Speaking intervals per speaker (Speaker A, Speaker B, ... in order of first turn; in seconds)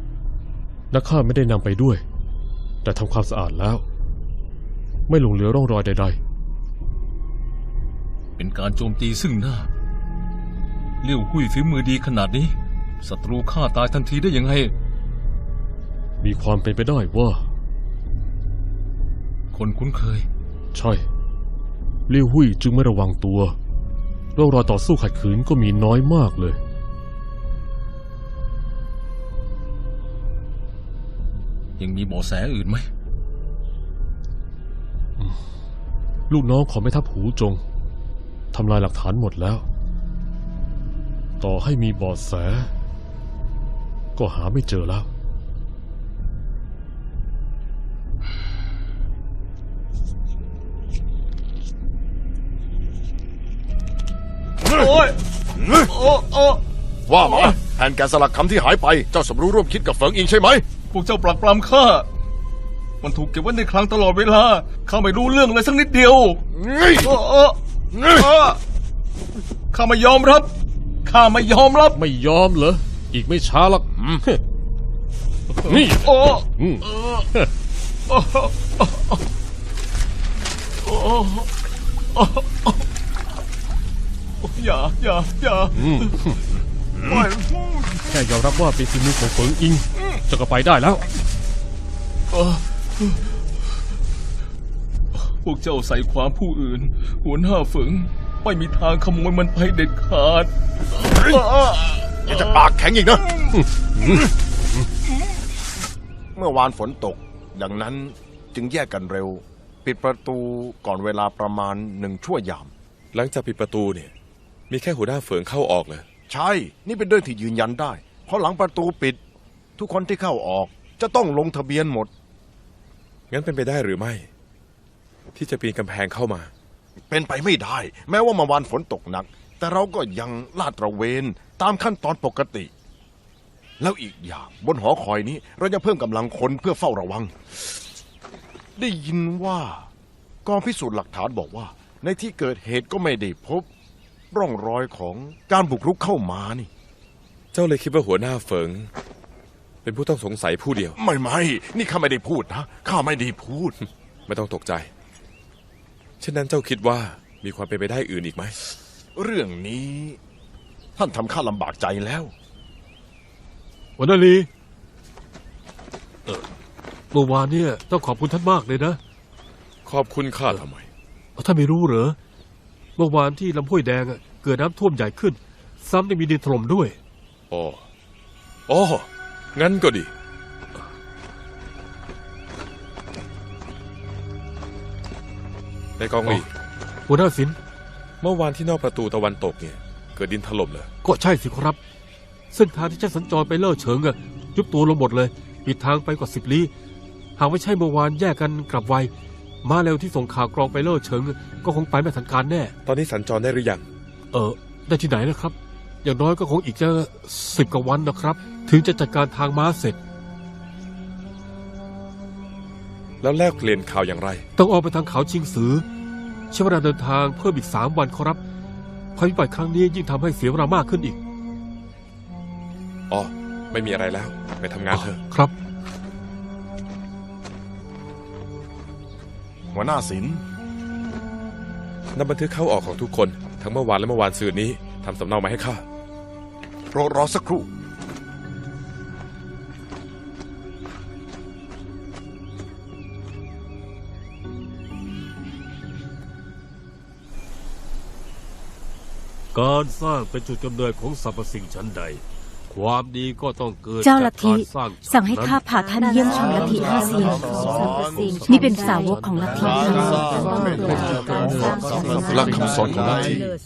Speaker A: 0.9-2.0, 2.8-3.8, 5.1-6.2, 16.2-17.5, 20.7-21.1, 22.1-23.6, 24.3-26.6, 36.3-37.6, 38.5-39.6, 41.4-42.7, 44.1-45.1, 71.9-74.4, 75.6-77.5, 85.8-86.4, 88.1-91.0, 103.9-104.2, 260.6-262.5
Speaker B: 8.4-9.7, 11.0-14.7, 19.5-20.3, 31.8-32.9, 54.6-56.6, 57.2-57.5, 60.9-62.1, 63.0-66.4, 67.0-68.6, 69.7-70.5, 71.0-72.0, 75.6-77.3, 78.1-79.2, 80.8-81.5, 82.1-82.8, 84.4-86.1, 87.0-87.7, 92.3-93.2, 95.1-102.6
Speaker C: 55.6-55.9, 57.1-60.6, 66.5-67.1, 67.9-68.2, 102.2-103.3, 106.3-112.7, 116.3-119.2, 119.8-122.1, 127.1-132.7, 133.8-137.6, 138.8-139.9, 140.4-143.7, 144.3-146.7, 150.9-153.8, 159.1-160.2, 160.9-162.3, 229.7-230.4, 236.9-237.7, 257.5-258.2, 261.9-263.5
Speaker D: 113.1-114.1, 114.7-116.0, 123.3-124.3, 125.3-126.5, 147.5-148.9, 149.8-151.0, 154.3-154.9, 156.2-158.6, 169.8-170.9, 177.5-177.8, 178.7-180.1, 186.0-186.5, 188.2-190.9, 202.8-203.8, 213.2-214.5, 223.1-225.2, 232.1-235.8
Speaker E: 164.0-164.5, 167.1-169.0, 171.4-172.2, 173.0-177.0, 187.1-187.6, 191.0-191.8, 192.5-196.7, 197.4-199.1, 199.6-202.7, 204.3-210.0, 214.6-215.8, 216.5-218.4, 219.1-221.2, 224.9-225.5, 249.5-255.6, 256.6-257.4, 258.1-259.7
Speaker F: 254.0-257.7, 258.4-260.3